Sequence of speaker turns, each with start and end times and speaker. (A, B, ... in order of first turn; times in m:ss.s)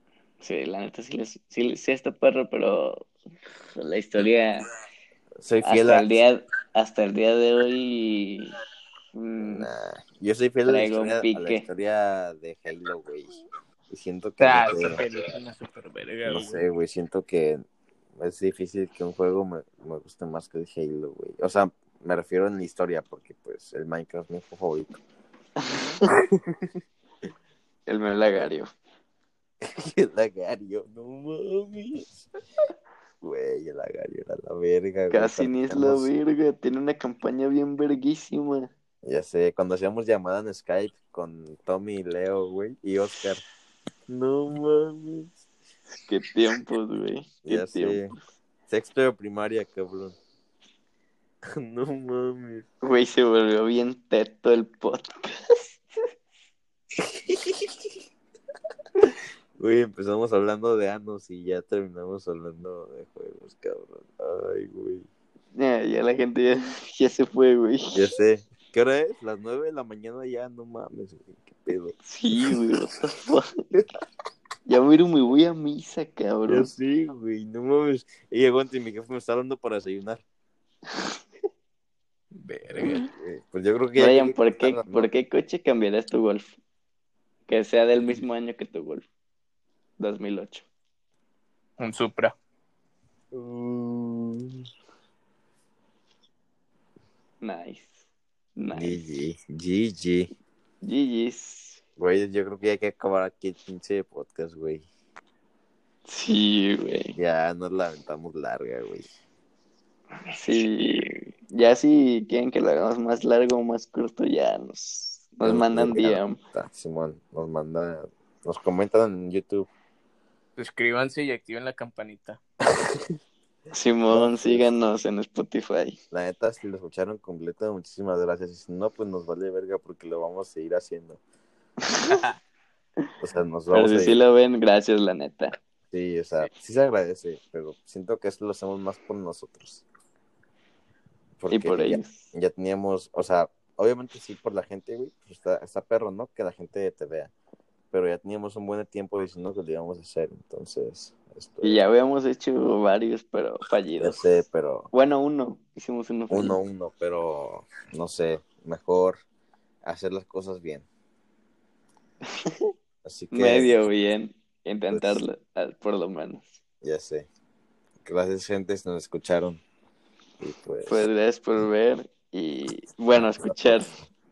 0:00.4-0:03.1 A
0:03.8-0:04.6 A
0:05.4-0:06.1 B
0:05.6-0:08.5 A
0:09.1-0:09.7 A
0:09.4-0:15.0 B
0:10.6-0:11.6 A
0:14.4-0:16.6 C
0:16.2-0:17.6 B
0:18.2-0:25.0 B
0:26.1-0:26.7 B
0:27.9-0:28.7 A
0:29.6-0:32.3 B
0:33.2-0:36.1 B
0:35.1-0:38.7 A
0:39.0-0:43.4 B
0:44.1-0:45.4 B
0:46.0-0:48.2 A
0:47.4-0:48.1 B
0:48.7-0:50.2 B
0:51.6-0:52.7 B
0:52.8-0:55.8 A
0:57.0-0:57.7 B
0:59.0-1:05.1 B
1:05.5-1:08.0 A
1:07.9-1:12.7 B
1:12.0-1:13.5 A
1:14.6-1:16.7 A
1:16.5-1:20.2 B
1:22.3-1:23.1 C
1:22.8-1:25.1 B
1:24.0-1:26.6 A
1:27.5-1:29.0 A
1:30.0-1:30.7 A
1:31.8-1:32.4 C
1:33.3-1:34.6 B
1:37.4-1:38.0 A
1:38.6-1:39.0 A
1:38.7-1:40.3 B
1:40.8-1:41.8 A
1:42.0-1:44.8 B
1:46.0-1:47.2 A
1:47.1-1:49.1 B
1:50.3-1:56.4 A
1:55.4-1:59.7 B
2:00.6-2:02.4 C
2:03.7-2:06.0 A
2:04.1-2:04.7 B
2:06.1-2:11.2 B
2:11.9-2:12.2 A
2:13.2-2:14.2 B
2:13.7-2:15.6 A
2:15.9-2:19.8 B
2:21.4-2:27.3 B
2:21.5-2:22.3 A
2:27.9-2:31.9 B
2:31.6-2:34.2 A
2:34.0-2:34.9 B
2:34.9-2:36.6 A
2:36.3-2:39.2 B
2:39.8-2:40.9 B
2:42.3-2:42.7 A
2:43.0-2:43.8 B
2:43.3-2:46.6 A
2:44.9-2:45.2 B
2:46.8-2:47.3 B
2:48.0-2:49.6 B
2:50.4-2:51.1 B
2:50.8-2:53.9 A
2:53.4-2:54.0 B